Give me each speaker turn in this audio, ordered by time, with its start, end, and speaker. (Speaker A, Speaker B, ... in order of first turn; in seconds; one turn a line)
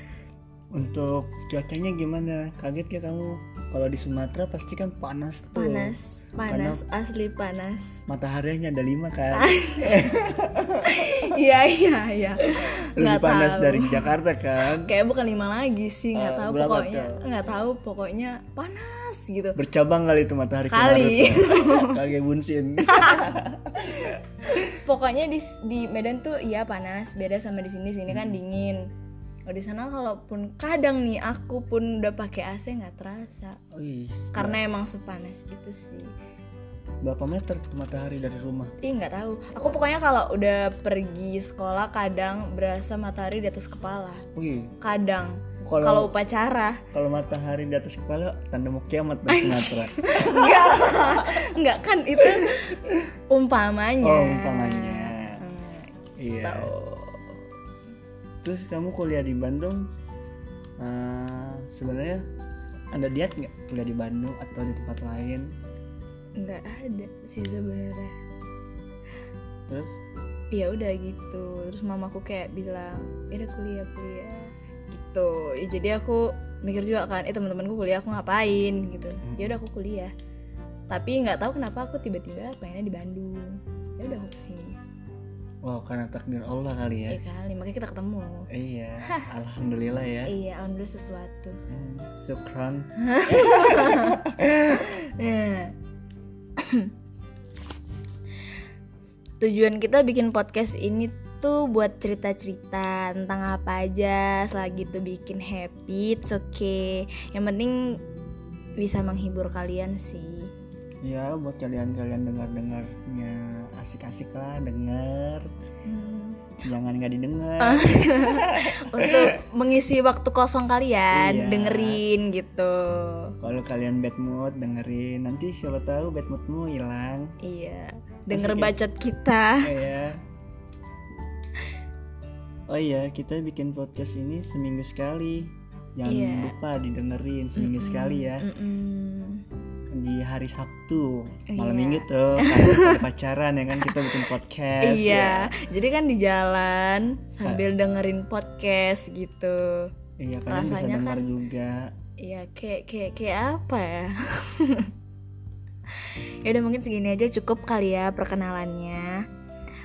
Speaker A: 0.7-5.9
Speaker B: 5.5-8.0
Speaker A: 6.5-6.8
Speaker A: 8.1-11.0
Speaker B: 9.3-10.1
Speaker B: 10.8-14.1
Speaker A: 12.9-14.9
Speaker B: 14.8-19.6
Speaker A: 16.1-17.2
Speaker A: 19.6-24.6
Speaker B: 20.7-22.0
Speaker B: 22.9-23.2
Speaker B: 24.6-28.8
Speaker A: 28.1-28.4
Speaker B: 29.5-33.6
Speaker A: 33.7-34.6
Speaker B: 34.3-36.1
Speaker A: 37.0-38.7
Speaker B: 38.8-44.2
Speaker A: 44.3-44.8
Speaker B: 44.8-46.8
Speaker A: 45.6-46.1
Speaker A: 46.9-51.0
Speaker B: 49.3-55.9
Speaker A: 54.0-55.4
Speaker A: 56.2-56.7
Speaker B: 56.4-57.4
Speaker A: 58.4-59.9
Speaker A: 60.8-62.2
Speaker A: 62.9-65.5
Speaker B: 66.4-68.2
Speaker A: 69.7-70.0
Speaker B: 70.5-80.1
Speaker A: 79.2-79.6
Speaker B: 80.9-84.8
Speaker A: 85.6-87.2
Speaker B: 87.1-88.5
Speaker A: 88.5-90.3
Speaker B: 90.2-91.6
Speaker A: 91.7-94.8
Speaker B: 93.0-95.7
Speaker B: 96.6-96.9
Speaker B: 99.4-108.0
Speaker B: 108.8-110.5
Speaker A: 111.0-115.5
Speaker B: 115.8-116.4
Speaker A: 116.6-119.3
Speaker B: 117.6-123.3
Speaker A: 121.1-122.0
Speaker A: 123.4-127.3
Speaker B: 127.4-129.7
Speaker A: 128.3-128.8
Speaker A: 129.6-130.2
Speaker A: 132.7-138.4
Speaker B: 136.1-136.6
Speaker B: 137.6-139.4
Speaker A: 139.9-145.5
Speaker B: 141.5-143.0
Speaker B: 143.8-144.2
Speaker B: 144.8-149.9
Speaker A: 150.2-151.9
Speaker B: 150.5-151.3
Speaker B: 152.2-154.9
Speaker B: 155.9-159.2